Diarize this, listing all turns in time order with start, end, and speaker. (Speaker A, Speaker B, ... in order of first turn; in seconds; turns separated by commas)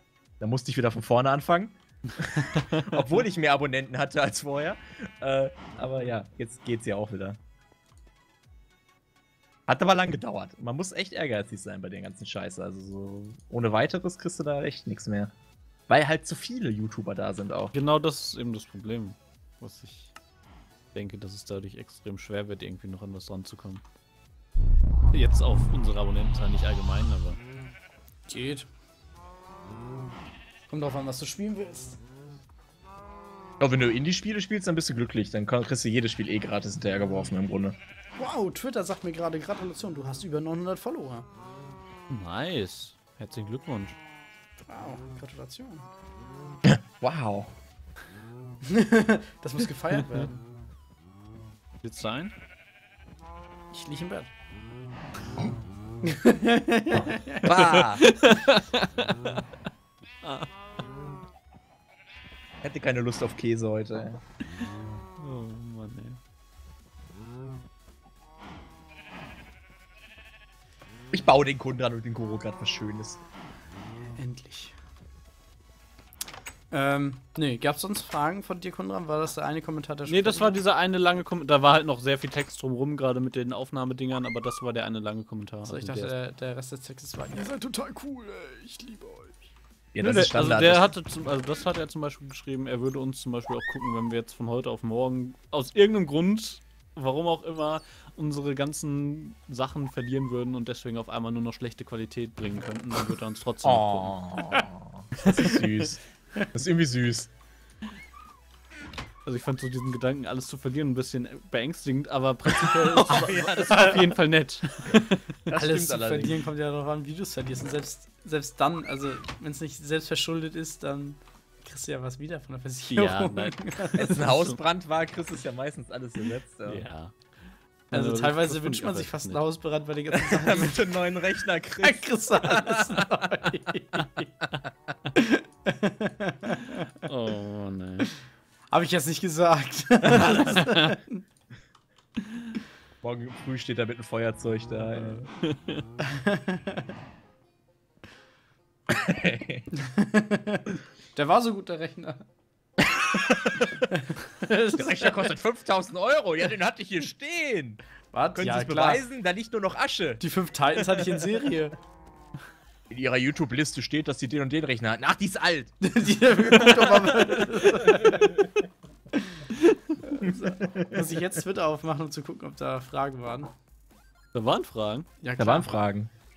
Speaker A: 0.4-7.4, Speaker B: 2.2-3.0, Speaker A: 9.7-15.3, Speaker A: 15.9-17.7, Speaker B: 17.7-20.1, Speaker B: 20.9-23.8, Speaker B: 25.1-27.4, Speaker C: 28.3-28.7, Speaker C: 30.7-32.0, Speaker A: 33.6-37.8, Speaker C: 38.2-41.2, Speaker B: 42.1-44.0, Speaker C: 44.7-45.9, Speaker A: 46.6-47.5, Speaker C: 48.6-50.4, Speaker B: 49.9-50.3, Speaker B: 51.8-52.3, Speaker C: 53.7-54.3, Speaker C: 56.0-57.5, Speaker A: 57.0-58.0, Speaker B: 57.7-59.4, Speaker B: 60.2-60.5, Speaker A: 62.6-64.2, Speaker B: 65.2-66.2, Speaker A: 71.1-73.2, Speaker C: 74.2-74.8, Speaker C: 76.7-80.6, Speaker B: 80.1-86.1, Speaker C: 85.6-89.3, Speaker A: 89.9-90.9, Speaker B: 90.0-104.2, Speaker A: 103.6-106.0, Speaker A: 106.5-107.3, Speaker B: 109.2-115.2, Speaker C: 112.6-113.2, Speaker A: 113.0-114.2, Speaker A: 115.5-116.4, Speaker C: 115.5-124.1, Speaker B: 122.9-124.6, Speaker A: 124.0-126.9, Speaker B: 126.6-129.4, Speaker C: 127.9-130.9, Speaker A: 130.1-133.0, Speaker C: 131.8-134.2, Speaker C: 135.2-136.9, Speaker B: 137.0-138.1, Speaker C: 138.7-141.2, Speaker B: 140.1-140.9, Speaker A: 143.0-145.3, Speaker B: 145.4-145.8, Speaker C: 146.0-146.8, Speaker A: 148.9-149.6, Speaker C: 149.7-152.2, Speaker A: 152.8-153.9, Speaker C: 153.9-155.2, Speaker A: 154.7-157.8, Speaker C: 158.1-159.0, Speaker A: 158.3-160.2, Speaker C: 160.2-161.8, Speaker A: 161.0-161.5, Speaker A: 162.9-165.8, Speaker C: 165.8-168.4, Speaker A: 166.5-168.3, Speaker C: 170.0-173.5, Speaker A: 170.2-171.2, Speaker B: 174.3-175.1, Speaker C: 175.2-175.7, Speaker A: 175.4-176.1